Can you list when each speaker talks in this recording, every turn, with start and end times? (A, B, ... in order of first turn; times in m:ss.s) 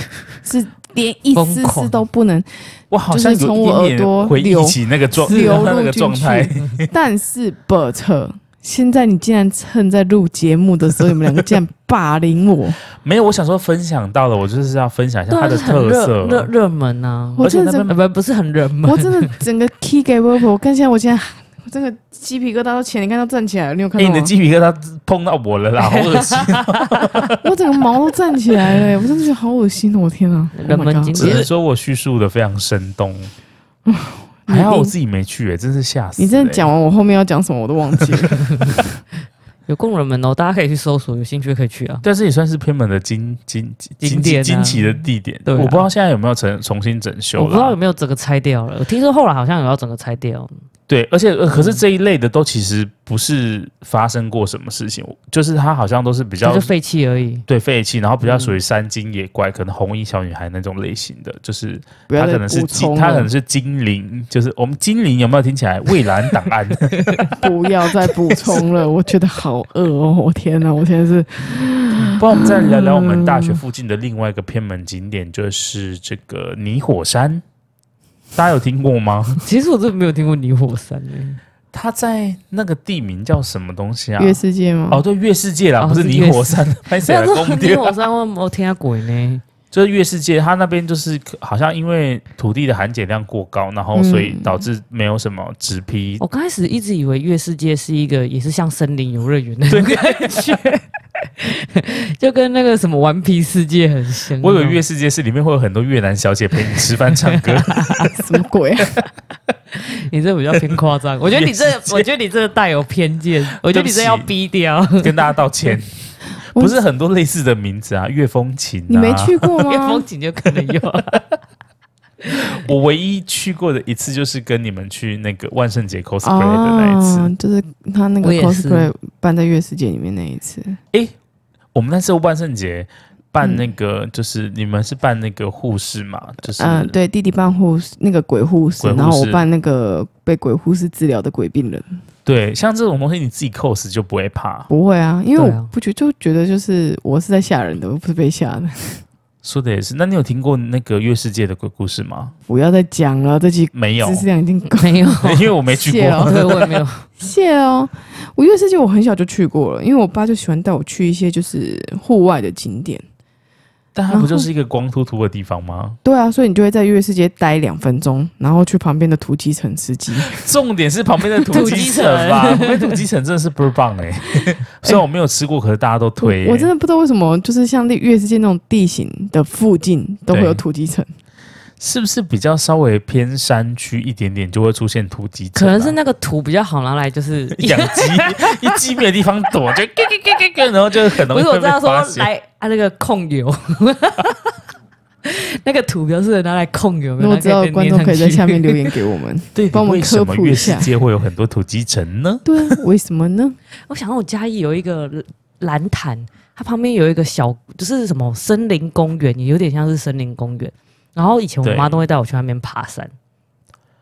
0:00.4-0:02.5 A
0:01.4-0:02.0 B
0:02.9-0:06.9 C
0:03.1-0:12.8 A
0:05.3-0:05.7 B
0:13.0-0:16.5 C
0:15.3-0:19.3 B
0:17.4-0:17.9 A
0:17.4-0:18.0 C
0:18.8-0:24.3 A
0:24.0-0:27.4 C
0:25.8-0:27.2 B
0:27.4-0:31.4 A
0:30.6-0:31.5 B
0:31.2-0:33.3 C
0:33.9-0:34.9 A
0:34.5-0:36.7 C
0:36.2-0:38.8 A
0:39.7-0:42.0 B
0:42.0-0:47.8 C
0:44.0-0:45.8 B
0:47.4-0:50.5 B
0:50.9-0:56.7 C
0:51.5-0:51.8 B
0:56.4-0:57.5 B
0:57.5-1:07.3 C
0:58.2-0:58.6 B
1:02.1-1:03.3 A
1:07.0-1:07.3 B
1:07.3-1:12.9 A
1:12.1-1:17.4 C
1:18.4-1:19.4 C
1:19.4-1:21.4 B
1:21.7-1:28.0 C
1:24.2-1:25.0 A
1:25.8-1:29.4 B
1:29.7-1:36.2 C
1:33.9-1:34.6 A
1:36.2-1:44.8 B
1:39.7-1:40.6 C
1:44.4-1:48.1 C
1:46.8-1:48.1 B
1:48.1-1:49.0 A
1:49.7-1:55.3 B
1:51.3-1:52.1 C
1:53.6-1:54.3 C
1:55.0-1:55.9 C
1:56.6-1:59.5 C
1:58.9-2:00.1 A
1:59.6-2:01.2 B
2:02.3-2:07.3 C
2:06.2-2:10.8 A
2:08.2-2:08.9 B
2:11.7-2:17.0 C
2:16.6-2:22.0 A
2:18.8-2:19.4 C
2:22.2-2:24.7 C
2:24.7-2:29.0 A
2:25.4-2:25.7 B
2:29.4-2:32.3 C
2:32.5-2:36.6 A
2:33.7-2:34.3 C
2:34.7-2:35.5 B
2:35.2-2:36.8 C
2:36.2-2:37.1 B
2:37.2-2:43.0 A
2:44.0-2:46.0 C
2:44.1-2:44.5 A
2:46.0-2:50.4 A
2:50.2-2:56.7 C
2:51.5-2:53.0 B
2:56.2-3:01.1 A
3:00.3-3:00.6 C
3:01.8-3:06.0 C
3:05.6-3:08.8 B
3:07.6-3:12.3 C
3:11.1-3:14.6 B
3:15.2-3:18.9 B
3:17.2-3:20.9 A
3:19.6-3:22.5 C
3:22.4-3:23.6 A
3:23.9-3:33.1 B
3:31.6-3:32.0 C